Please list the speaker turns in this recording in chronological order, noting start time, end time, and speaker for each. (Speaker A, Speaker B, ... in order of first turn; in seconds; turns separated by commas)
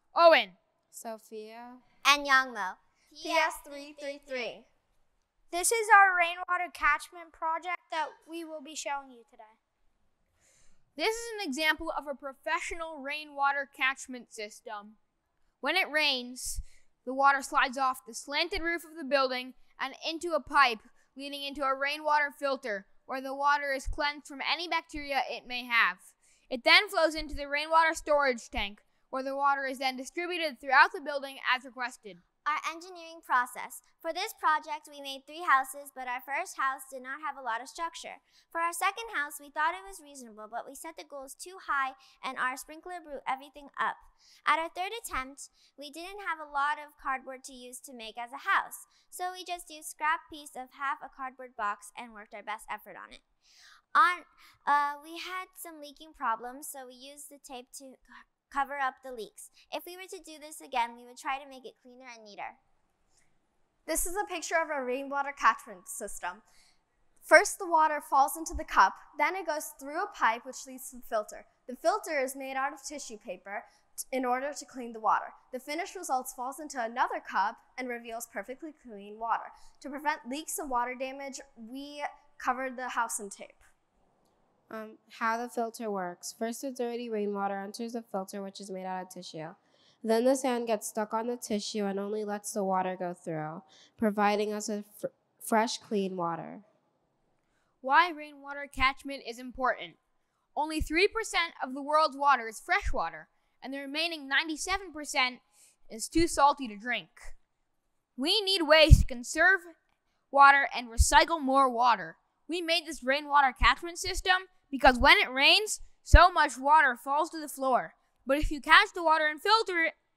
Speaker A: 0.1-0.6, Speaker B: 0.9-1.8, Speaker C: 2.0-4.6, Speaker D: 3.2-4.7, Speaker E: 5.5-9.6, Speaker A: 11.0-15.0, Speaker A: 15.6-32.2, Speaker C: 32.5-53.2, Speaker C: 53.9-62.6, Speaker D: 63.9-66.4, Speaker D: 67.2-83.6, Speaker B: 84.7-96.7, Speaker A: 97.8-100.0, Speaker A: 100.6-107.3, Speaker A: 108.2-109.8, Speaker A: 110.3-120.0